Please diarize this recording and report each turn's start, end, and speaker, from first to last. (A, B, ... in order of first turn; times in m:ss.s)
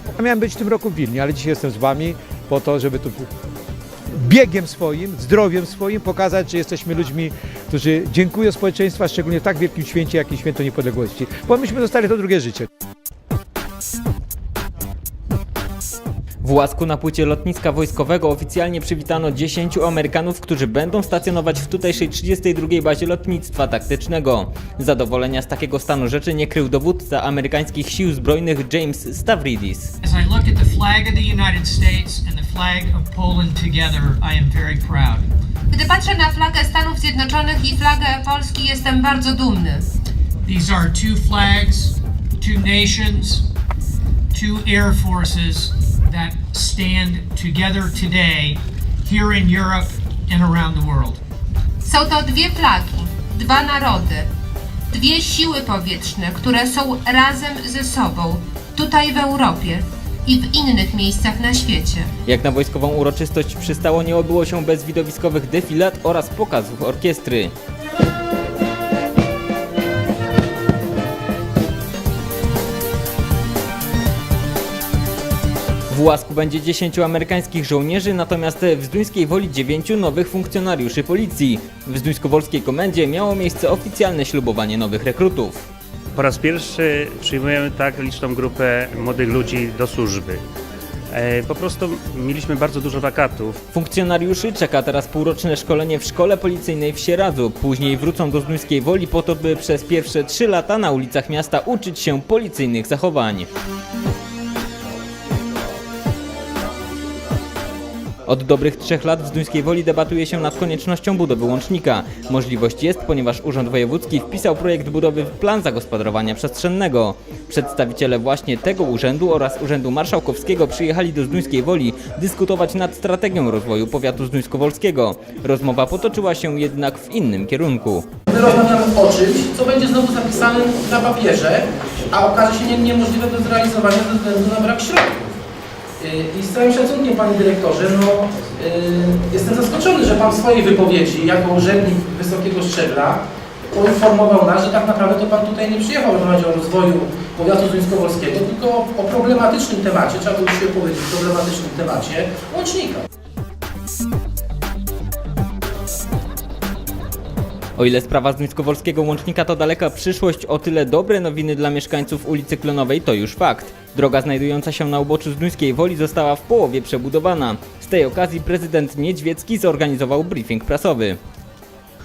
0:00.2-0:03.3 A
0:04.2-0:12.7 A
0:16.4-0:29.9 B
0:30.0-0:35.2 C
0:35.7-0:39.8 D
0:40.4-0:43.4 C
0:44.3-0:51.2 C
0:51.8-0:54.3 D
0:54.9-1:02.1 D
1:02.2-1:07.5 B
1:15.9-1:25.7 B
1:26.1-1:30.4 E
1:31.1-1:33.6 E
1:33.7-1:43.5 B
1:48.3-2:08.1 B
2:08.3-2:15.4 F
2:16.0-2:33.0 F
2:37.8-2:51.2 B